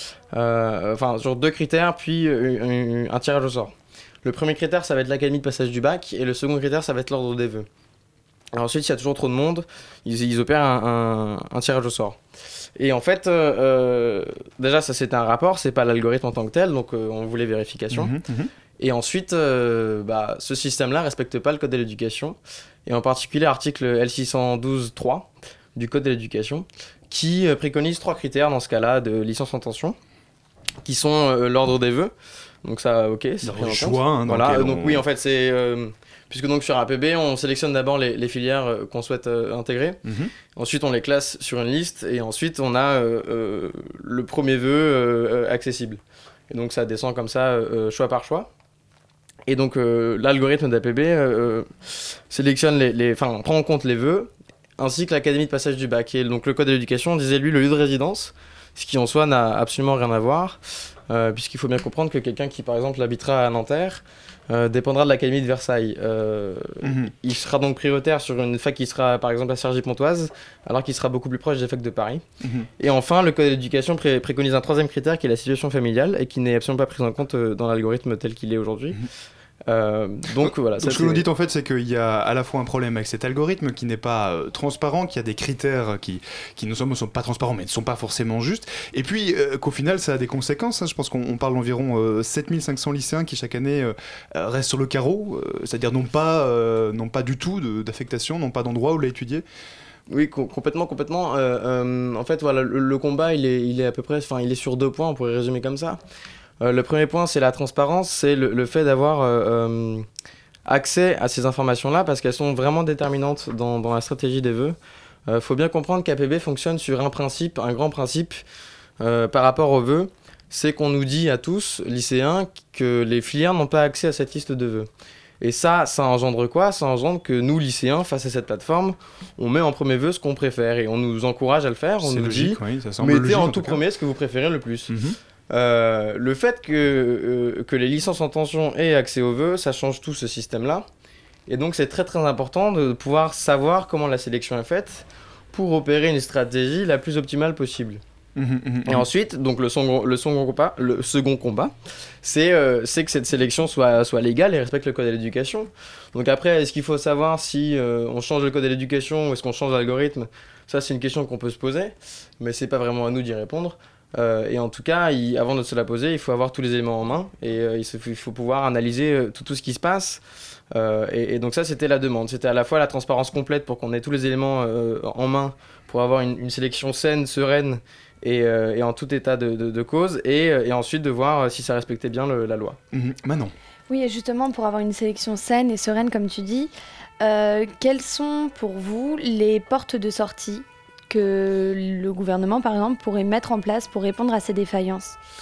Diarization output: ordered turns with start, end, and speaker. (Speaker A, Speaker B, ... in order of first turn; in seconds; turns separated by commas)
Speaker A: 0.3-7.7, Speaker A: 8.5-12.2, Speaker A: 12.8-18.1, Speaker B: 17.9-18.5, Speaker A: 18.8-29.9, Speaker A: 30.8-32.1, Speaker A: 32.6-40.0, Speaker B: 33.4-35.0, Speaker B: 40.0-40.3, Speaker A: 40.5-48.5, Speaker A: 49.5-72.2, Speaker B: 66.8-67.1, Speaker B: 72.4-72.7, Speaker A: 72.8-79.0, Speaker A: 79.7-81.3, Speaker B: 80.4-99.4, Speaker A: 100.1-106.0, Speaker A: 106.6-110.0, Speaker A: 110.7-118.4, Speaker A: 119.0-124.9, Speaker A: 125.4-134.9, Speaker B: 132.0-133.8, Speaker B: 134.9-135.2, Speaker A: 135.5-140.8, Speaker A: 141.5-148.0, Speaker B: 148.3-149.0, Speaker A: 148.8-170.2, Speaker A: 170.7-182.8, Speaker B: 182.9-183.5, Speaker C: 183.9-195.2